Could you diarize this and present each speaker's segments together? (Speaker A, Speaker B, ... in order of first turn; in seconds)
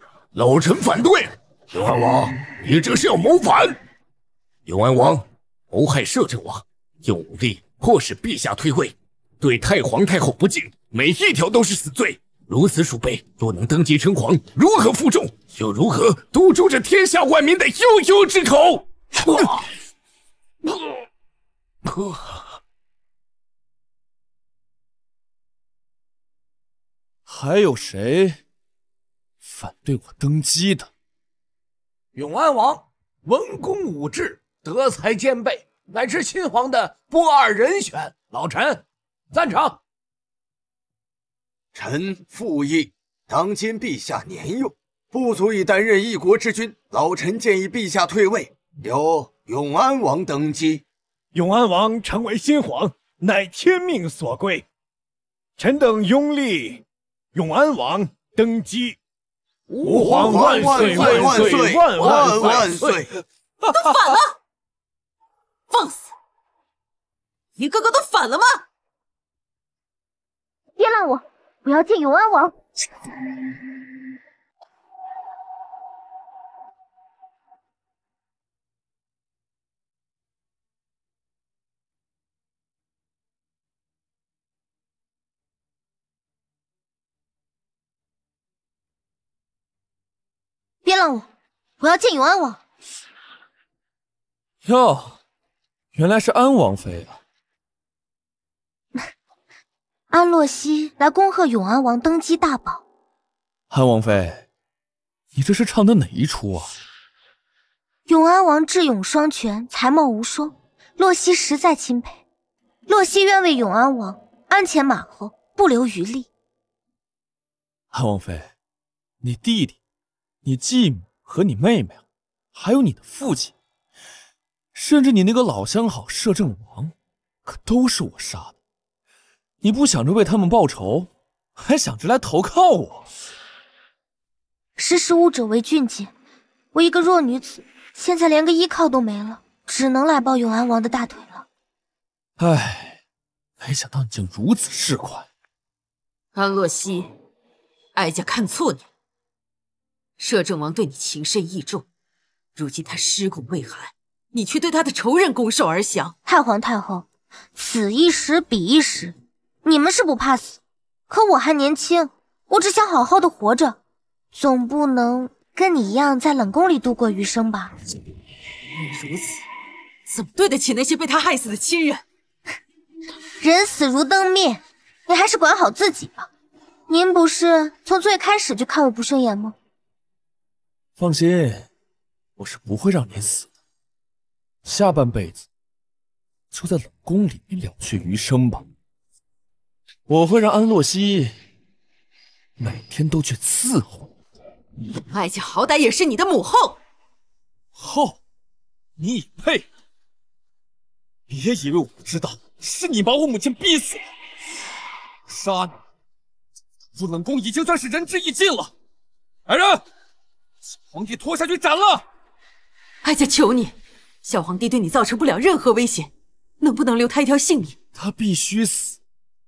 Speaker A: 0.3-3.8, 4.7-19.6, 21.8-22.4
Speaker B: 27.3-28.4, 29.4-30.9, 94.6-95.2, 95.9-97.2, 103.7-104.5, 105.3-106.7, 117.9-118.5, 119.2-119.8, 120.4-122.0, 122.5-123.5, 124.7-126.9, 127.5-128.5, 129.6-133.1, 142.4-143.0, 143.6-145.2, 181.0-181.7, 182.4-183.5, 184.6-185.4, 186.5-188.7, 190.1-191.3, 192.6-194.1, 197.8-198.2, 199.0-199.7, 201.3-204.0, 205.3-205.8, 206.9-208.7, 209.5-209.8, 210.9-212.0, 217.9-219.0
Speaker C: 32.1-39.8, 59.8-63.0
Speaker D: 41.7-50.8, 59.8-63.1
Speaker E: 51.3-54.6, 55.6-56.8, 57.3-59.0, 59.8-63.0
Speaker F: 63.6-64.4, 65.7-66.1, 67.6-68.6, 146.3-147.1, 147.9-148.8, 150.2-151.8, 152.5-156.2, 170.1-172.0, 195.1-196.8, 213.0-217.8
Speaker G: 70.8-72.5, 90.8-91.3, 91.8-92.6, 100.1-102.8, 108.1-112.2, 112.9-116.3, 134.8-136.1, 136.7-141.4, 156.2-163.8, 164.3-167.7, 173.4-176.3, 176.9-179.5